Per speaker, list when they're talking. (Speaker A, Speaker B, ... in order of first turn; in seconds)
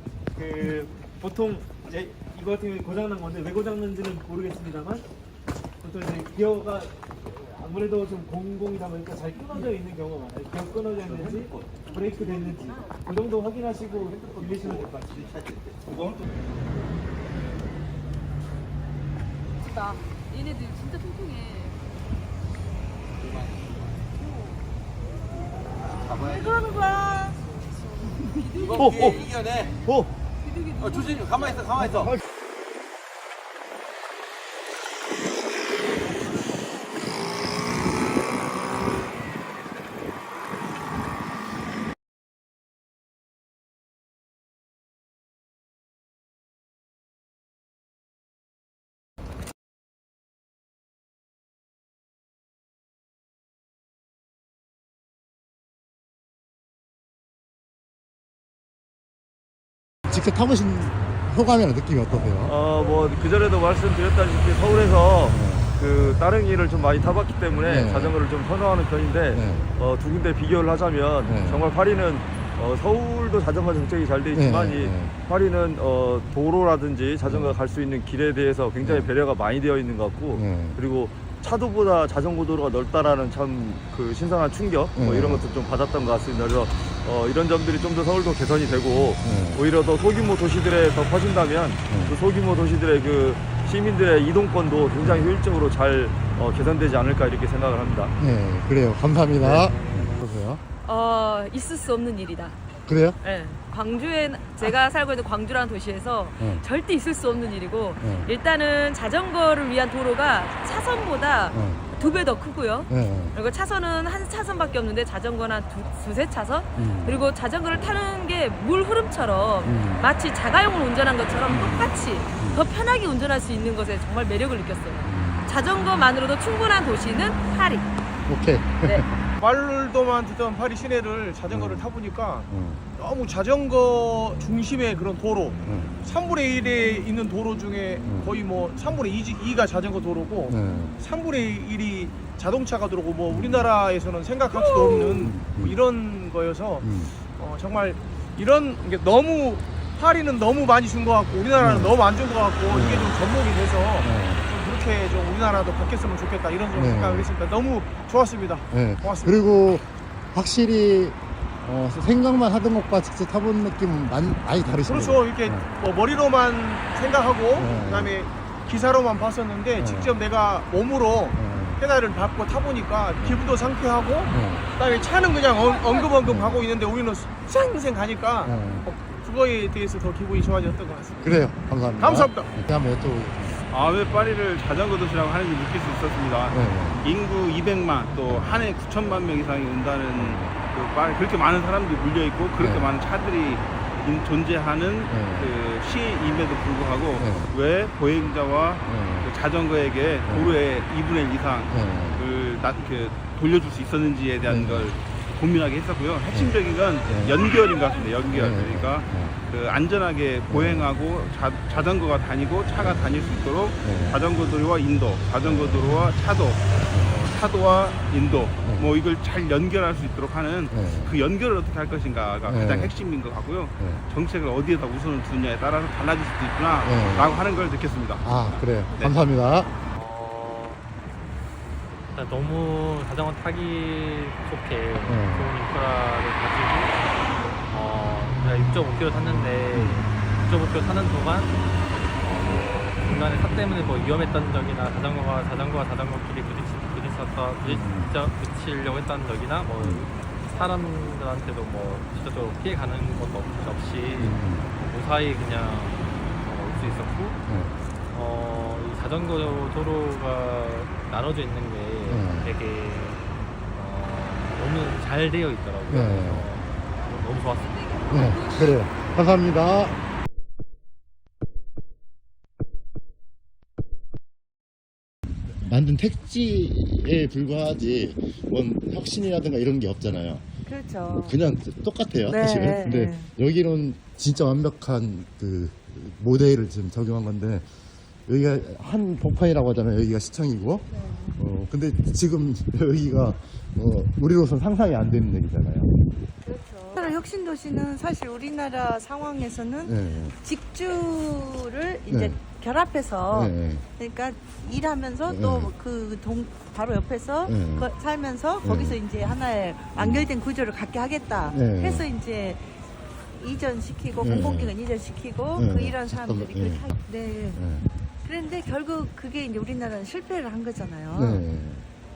Speaker A: 0.3-5.0, 5.8-15.4
Speaker B: 20.3-21.3, 100.8-102.6, 103.2-127.9, 296.4-297.0
Speaker C: 28.3-29.5, 30.4-31.8
Speaker D: 28.7-29.2, 29.8-30.1, 62.4-98.1
Speaker E: 60.1-62.5, 65.3-65.7, 67.6-68.2, 69.3-69.7, 71.2-71.7, 74.3-75.2, 77.2-77.5, 78.8-79.1, 80.3-80.8, 84.9-85.4, 89.2-89.6, 91.9-92.1, 98.2-100.6, 102.9-103.2, 106.4-106.6, 108.0-108.3, 111.5-111.9, 112.9-113.3, 116.7-117.2, 119.6-120.1, 121.5-122.6, 125.0-125.5, 128.2-129.1, 131.5-131.9, 132.5-132.8, 135.6-135.9, 138.0-138.3, 140.4-141.0, 143.3-143.7, 144.8-145.8, 146.8-147.2, 151.6-152.0, 152.7-153.2, 154.0-154.4, 156.7-157.3, 158.7-165.7, 167.6-168.1, 169.8-170.1, 171.3-171.8, 174.3-174.7, 176.2-176.6, 178.4-178.9, 181.2-183.6, 186.5-187.0, 188.3-188.5, 190.1-190.6, 192.6-192.9, 195.1-195.6, 197.2-197.5, 198.8-199.3, 200.3-200.6, 201.7-202.2, 204.4-204.9, 206.3-207.4, 208.3-209.3, 210.5-211.0, 212.8-213.2, 213.8-214.2, 215.4-216.1, 216.9-217.2, 218.6-218.9, 220.7-221.2, 222.5-223.0, 223.8-224.0, 226.8-227.4, 228.2-229.7, 235.0-235.5, 239.7-240.0, 247.6-248.1, 249.8-250.1, 254.2-254.7, 257.4-257.7, 262.1-262.5, 265.9-266.5, 268.1-270.0, 275.6-280.5, 281.2-287.7, 288.3-295.9, 299.8-300.4, 302.1-302.4, 303.3-303.9, 305.3-305.7, 307.4-307.9, 308.6-309.0, 309.9-310.3, 311.5-312.1, 314.2-314.8, 315.5-317.0, 317.5-317.9, 321.1-321.9
Speaker F: 129.4-159.4, 164.8-181.3, 182.0-182.5
Speaker G: 183.7-229.2
Speaker H: 229.9-230.8, 232.1-237.1, 237.7-241.5, 242.2-257.4, 258.1-267.8
Speaker I: 280.6-281.4, 282.2-283.3, 296.9-312.8, 313.3-317.6, 318.2-321.4